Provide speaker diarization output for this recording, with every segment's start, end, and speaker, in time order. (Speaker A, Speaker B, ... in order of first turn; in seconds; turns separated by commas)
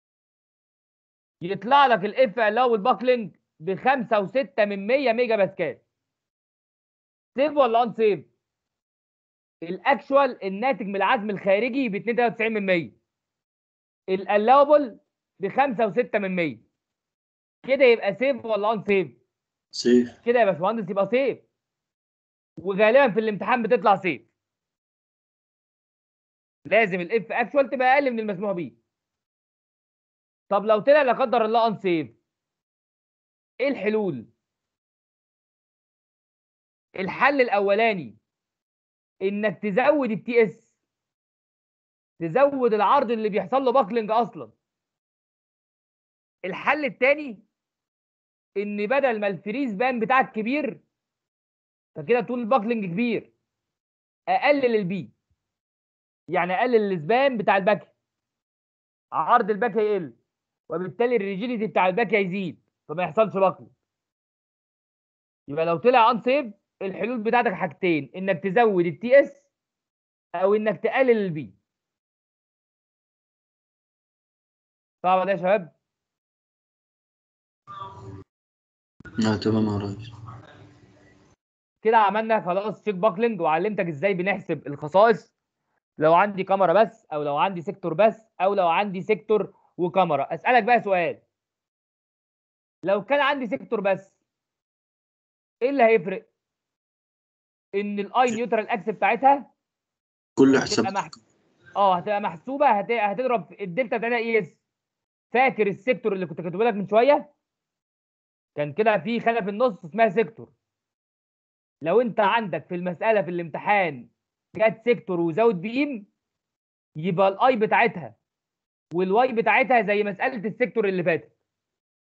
Speaker A: 1.4-5.8, Speaker A: 7.4-8.3, Speaker A: 9.6-12.9, Speaker A: 14.1-16.6, Speaker A: 17.6-19.2, Speaker B: 19.8-20.1, Speaker A: 20.2-21.4, Speaker A: 22.6-24.2, Speaker A: 26.7-28.7, Speaker A: 30.5-32.1, Speaker A: 33.6-34.3, Speaker A: 37.0-38.1, Speaker A: 39.2-40.6, Speaker A: 42.2-44.5, Speaker A: 46.5-47.4, Speaker A: 48.6-50.8, Speaker A: 52.0-53.3, Speaker A: 54.3-55.1, Speaker A: 56.3-57.9, Speaker A: 59.2-60.1, Speaker A: 60.7-63.7, Speaker A: 65.5-69.4, Speaker A: 70.4-71.5, Speaker A: 75.0-75.7, Speaker B: 79.2-80.1, Speaker A: 81.8-85.3, Speaker A: 86.0-91.2, Speaker A: 92.8-94.1, Speaker A: 95.6-96.3, Speaker A: 97.8-99.5, Speaker B: 100.4-101.0, Speaker A: 100.5-101.1, Speaker A: 101.8-104.6, Speaker A: 105.3-107.3, Speaker A: 108.6-110.5, Speaker A: 111.8-116.1, Speaker A: 117.0-118.2, Speaker A: 118.9-121.3